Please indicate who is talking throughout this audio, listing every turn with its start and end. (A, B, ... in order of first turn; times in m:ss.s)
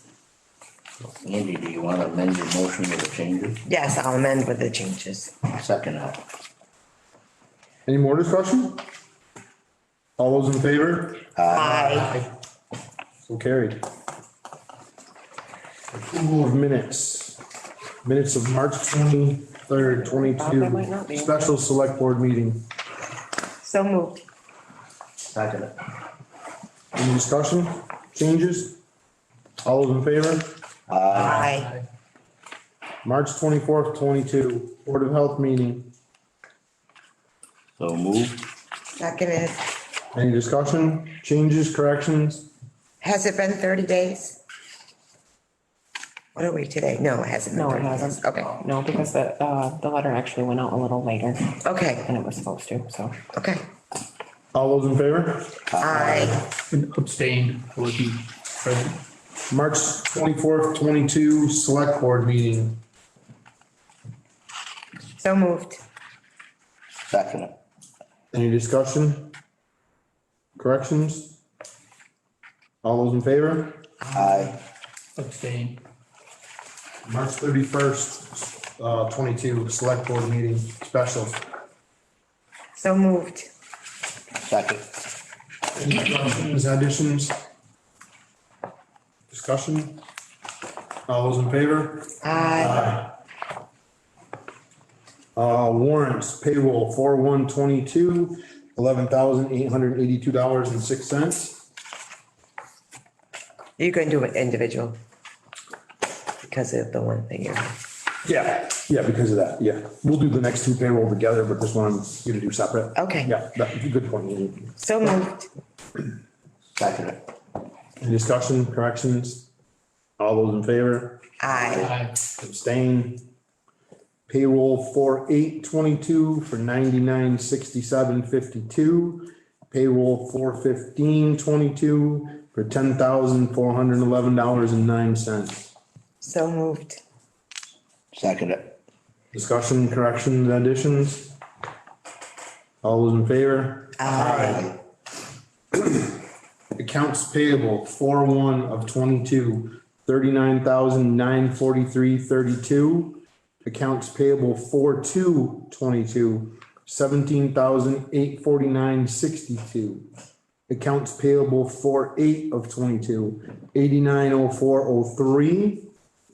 0:01.2-0:03.6 A
0:03.7-0:05.4 B
0:05.5-0:06.2 A
0:07.8-0:08.8 C
0:10.2-0:11.2 C
0:11.4-0:12.1 A
0:11.5-0:12.1 B
0:11.9-0:12.3 D
0:13.3-0:13.8 C
0:15.9-0:17.4 C
0:18.0-0:22.7 C
0:19.9-0:21.5 E
0:23.6-0:24.2 B
0:25.3-0:25.8 A
0:27.0-0:28.8 C
0:29.6-0:30.5 C
0:30.9-0:31.5 A
0:31.1-0:31.7 B
0:31.2-0:31.8 D
0:33.0-0:35.9 C
0:37.8-0:38.5 A
0:39.0-0:39.6 B
0:40.1-0:42.5 C
0:43.0-0:44.4 B
0:46.3-0:48.6 B
0:47.5-0:53.2 E
0:51.6-0:52.0 B
0:53.3-0:53.6 B
0:54.5-0:56.4 C
0:55.7-0:56.4 A
0:55.8-0:56.4 B
0:56.7-0:59.0 D
0:59.5-1:02.8 C
1:05.2-1:05.8 B
1:07.1-1:07.5 A
1:08.3-1:09.3 C
1:10.6-1:11.4 C
1:12.8-1:13.8 C
1:14.0-1:14.5 B
1:14.1-1:14.6 A
1:15.2-1:15.8 D
1:17.0-1:21.4 C
1:22.8-1:23.5 B
1:24.4-1:24.9 A
1:25.7-1:27.4 C
1:29.3-1:30.0 C
1:31.1-1:33.1 C
1:32.2-1:33.0 B
1:35.3-1:41.7 C
1:43.8-1:45.0 B
1:46.4-1:47.7 B
1:48.2-1:55.2 C
1:53.0-1:53.4 B
1:54.8-1:55.5 B
1:56.8-1:57.2 A
1:58.0-1:59.5 C
2:00.2-2:01.2 C
2:01.4-2:01.9 B
2:01.6-2:01.9 A
2:01.8-2:02.2 D
2:02.3-2:03.2 C
2:04.3-2:15.7 C
2:16.2-2:17.0 B
2:18.1-2:18.8 A
2:19.3-2:21.4 C
2:22.8-2:24.8 C
2:24.0-2:24.7 B
2:25.8-2:26.1 C
2:26.8-2:40.1 C
2:40.7-2:45.9 C